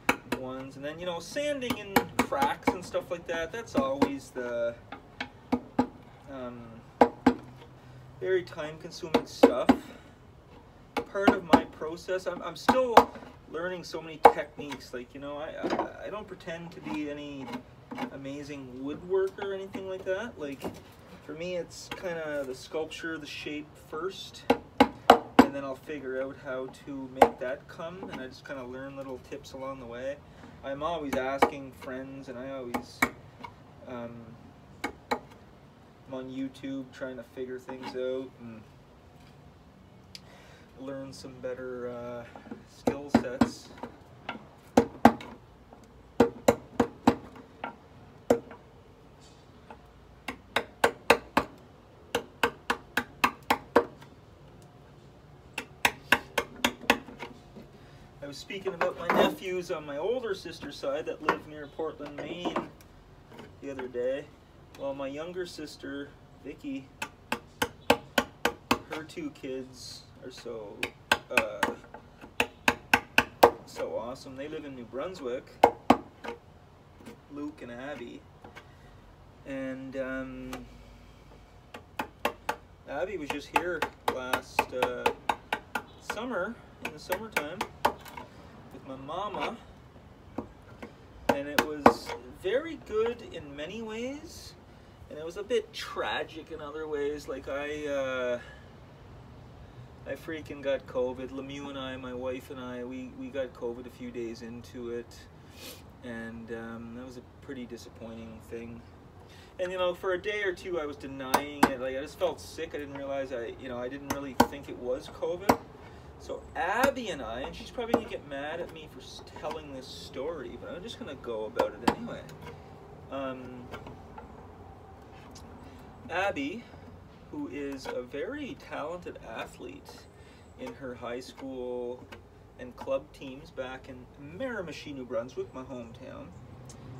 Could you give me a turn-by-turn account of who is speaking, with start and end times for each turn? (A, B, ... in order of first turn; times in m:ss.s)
0:00.2-0:04.8 A
0:06.2-0:06.8 A
0:08.2-0:10.0 A
0:11.0-0:24.5 A
0:25.4-0:33.1 A
0:33.8-0:34.4 A
0:36.0-0:38.7 A
0:40.7-0:43.8 A
0:58.2-1:02.7 A
1:03.6-1:06.9 A
1:08.8-1:11.8 A
1:13.6-1:15.6 A
1:17.3-1:18.3 A
1:19.4-1:20.7 A
1:22.8-1:25.2 A
1:26.0-1:27.7 A
1:28.7-1:29.6 A
1:31.3-1:34.6 A
1:35.1-1:38.4 A
1:40.0-1:45.3 A
1:46.0-1:48.9 A
1:49.6-1:55.6 A
1:56.2-2:02.4 A
2:03.1-2:03.7 A
2:06.1-2:06.7 A
2:07.2-2:12.0 A
2:12.6-2:16.4 A